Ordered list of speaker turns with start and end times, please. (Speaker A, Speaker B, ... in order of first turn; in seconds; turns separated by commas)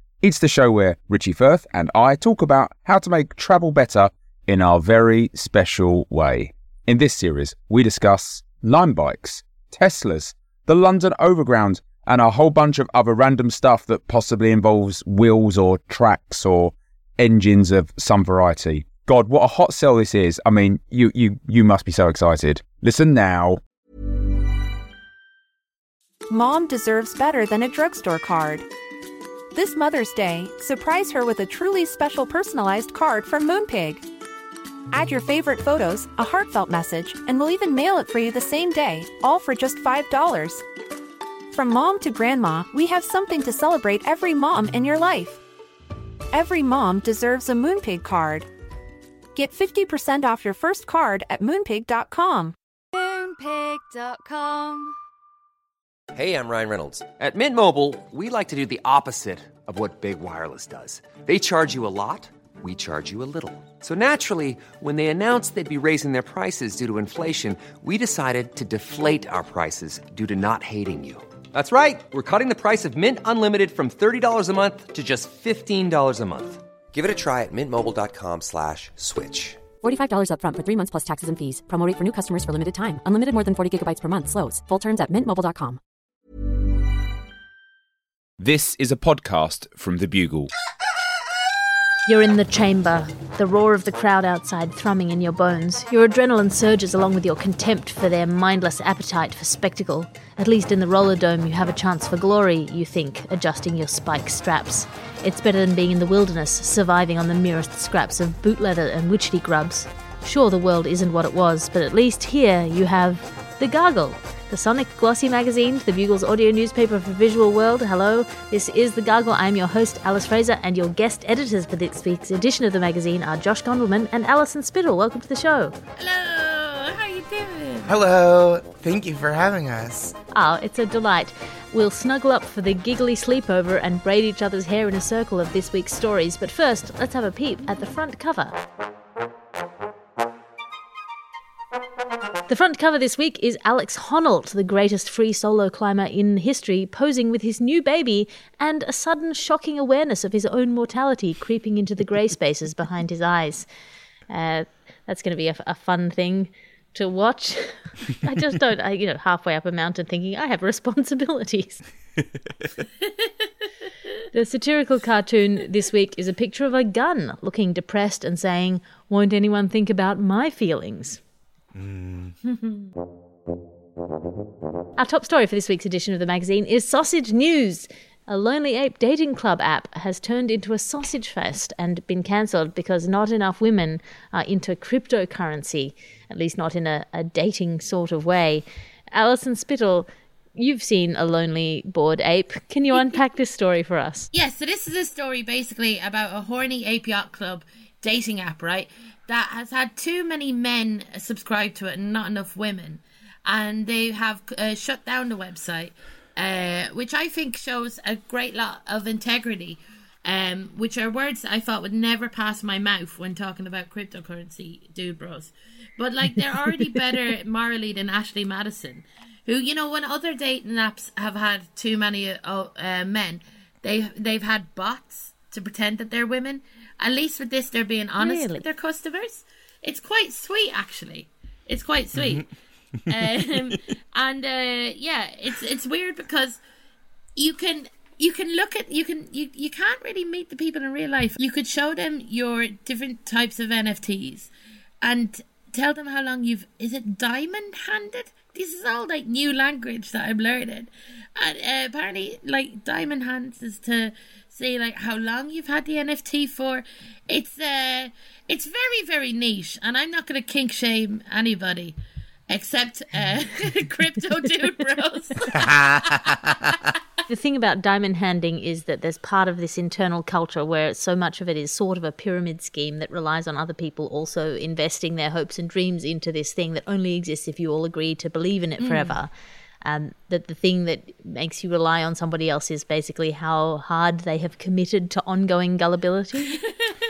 Speaker A: 0.2-23.6, Speaker B: 26.3-28.6, Speaker B: 29.5-34.0, Speaker B: 34.9-40.6, Speaker B: 41.5-45.4, Speaker B: 46.3-48.5, Speaker B: 49.3-52.5, Speaker C: 52.9-55.0, Speaker D: 56.1-79.6, Speaker E: 79.8-85.8, Speaker A: 88.4-90.5, Speaker F: 92.0-125.7, Speaker G: 126.0-128.0, Speaker H: 127.8-130.1, Speaker F: 130.3-138.5, Speaker F: 142.5-153.7, Speaker F: 154.3-161.8, Speaker F: 164.3-171.2, Speaker H: 171.7-172.3, Speaker F: 175.0-194.3, Speaker G: 194.3-232.5, Speaker F: 228.2-228.7, Speaker H: 232.1-232.4, Speaker G: 233.1-236.6, Speaker G: 237.3-244.5, Speaker G: 245.0-262.0, Speaker G: 262.5-266.3, Speaker H: 265.5-266.7, Speaker F: 267.3-279.3, Speaker G: 278.8-279.1, Speaker F: 279.8-286.6